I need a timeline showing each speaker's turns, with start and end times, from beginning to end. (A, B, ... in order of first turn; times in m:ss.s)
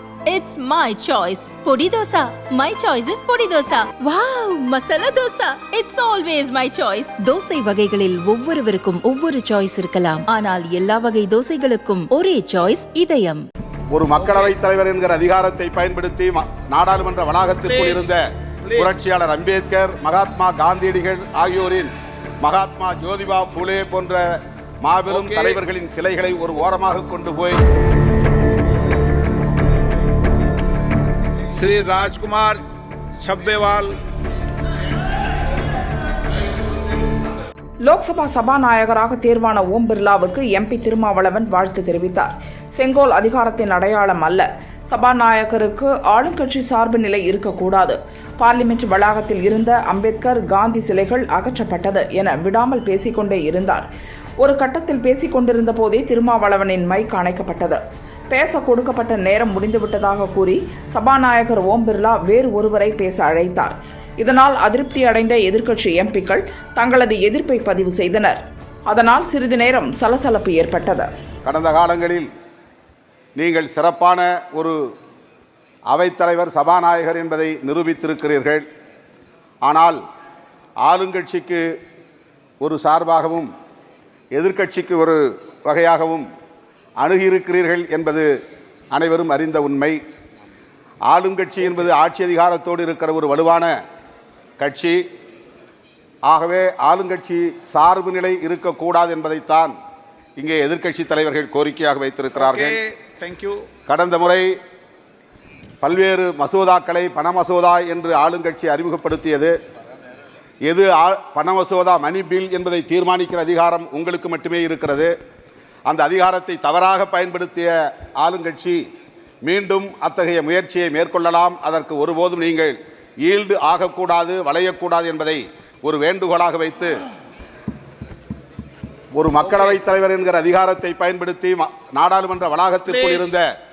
0:00.2-0:07.2 A
0:07.2-0:13.4 B
0:13.9-0:27.6 C
0:17.7-0:18.0 D
0:25.1-0:25.6 D
0:31.5-0:32.6 D
0:33.2-0:34.0 D
0:37.8-0:53.9 E
0:54.4-1:11.1 E
1:11.4-1:12.3 C
1:13.4-1:14.8 C
1:15.9-1:18.6 C
1:19.6-1:20.0 C
1:20.8-1:21.7 C
1:22.6-1:23.5 C
1:24.3-1:26.3 C
1:27.0-1:28.3 C
1:28.9-1:30.0 C
1:31.1-1:33.7 C
1:34.6-1:35.0 C
1:36.2-1:39.7 C
1:40.4-1:42.8 C
1:42.4-1:43.6 D
1:43.9-1:44.5 C
1:45.8-1:49.5 C
1:50.6-1:55.1 C
1:55.9-1:58.8 C
1:59.4-2:07.0 C
2:09.1-2:13.5 C
2:12.9-2:13.3 D